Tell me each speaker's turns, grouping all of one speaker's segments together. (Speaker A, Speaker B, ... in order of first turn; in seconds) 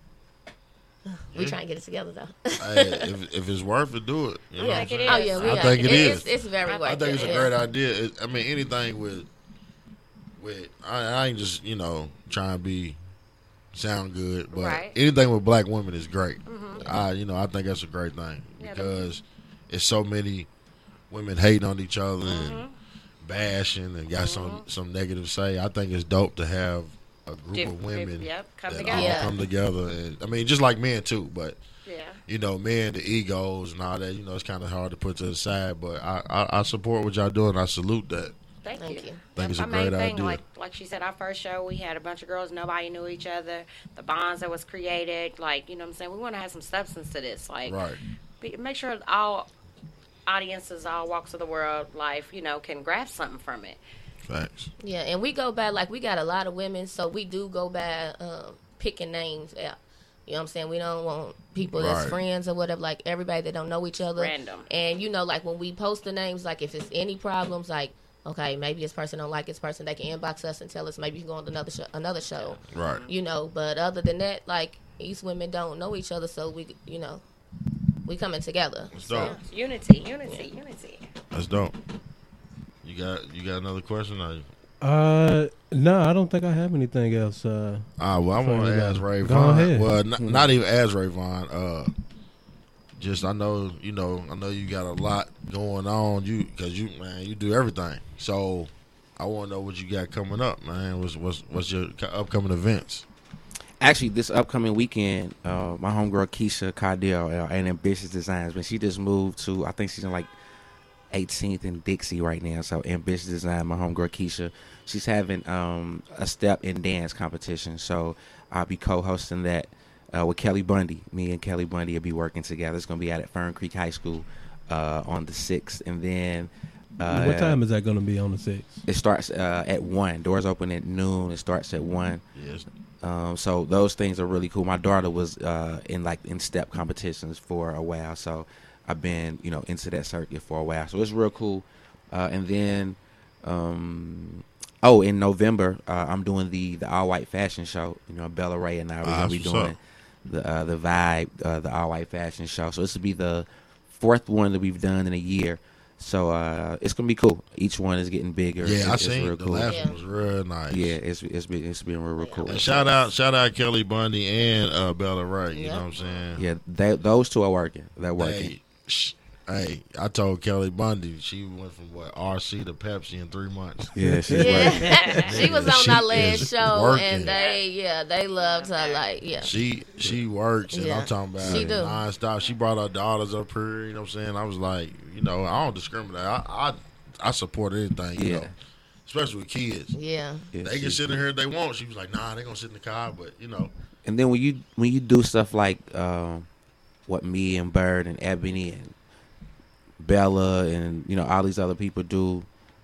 Speaker A: 1.1-3.1, 4.6-7.5, 16.7-17.0, 28.9-29.4, 38.8-39.2, 54.8-77.2, 78.0-79.4, 159.7-160.0, 162.2-162.7, 165.5-165.9, 174.3-179.5, 180.7-182.0, 189.9-190.5
Speaker B: 1.3-1.6, 2.6-6.3, 6.8-9.3, 10.4-13.0, 13.7-20.5, 21.1-22.6, 23.2-31.6, 32.3-38.3, 39.3-40.4, 47.6-48.0, 54.2-54.7, 61.7-62.2, 72.7-73.0, 78.9-79.4, 81.3-81.7, 82.8-84.5, 88.0-91.9, 93.0-103.0, 132.3-132.7, 149.0-149.8, 158.6-160.9, 162.5-166.4, 168.2-173.9, 175.3-177.3, 179.4-188.5, 189.1-189.9, 190.6-193.7
Speaker C: 4.6-7.5, 14.5-14.9, 16.4-16.8, 18.6-19.1, 22.2-22.7, 24.1-24.6, 27.5-29.4, 31.9-32.2, 38.6-47.8, 48.4-49.5, 50.3-53.8, 64.2-64.7, 72.4-73.1, 79.2-81.1, 177.2-177.6, 178.3-179.1
Speaker D: 84.8-87.8, 88.4-89.9, 127.0-128.8, 174.0-175.2
Speaker E: 90.2-90.5, 103.8-110.3, 111.1-127.6, 128.8-132.2, 133.0-159.8, 160.7-162.9, 166.3-168.5, 173.9-175.7, 181.4-181.8, 188.2-188.5, 190.5-191.2, 194.0-196.5, 197.1-198.9, 200.0-202.5